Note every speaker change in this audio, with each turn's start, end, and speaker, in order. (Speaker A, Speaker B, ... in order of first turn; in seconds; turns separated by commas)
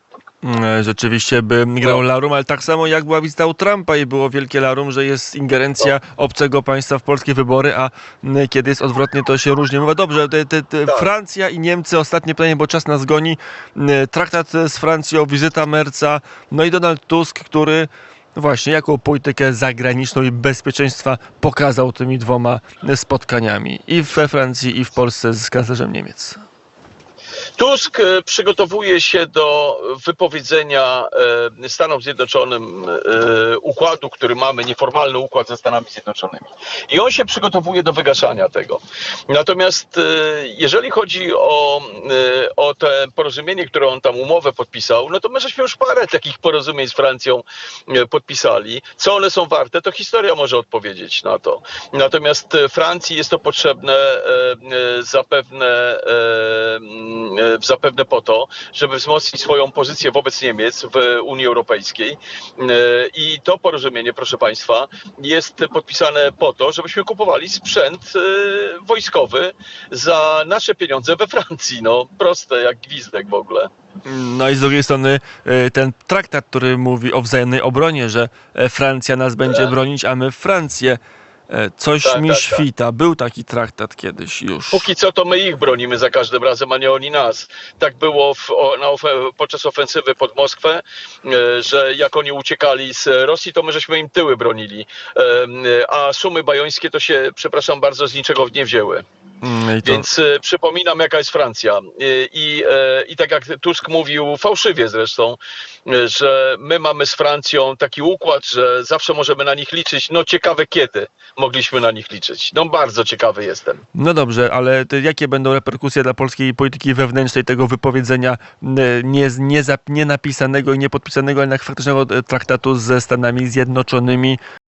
Speaker A: 0.4-26.4, Speaker B: 27.6-73.7, Speaker A: 74.0-84.9, Speaker B: 79.4-79.7, Speaker B: 82.0-82.7, Speaker B: 84.7-99.0, Speaker A: 99.4-100.0, Speaker B: 99.8-113.8, Speaker A: 113.9-124.4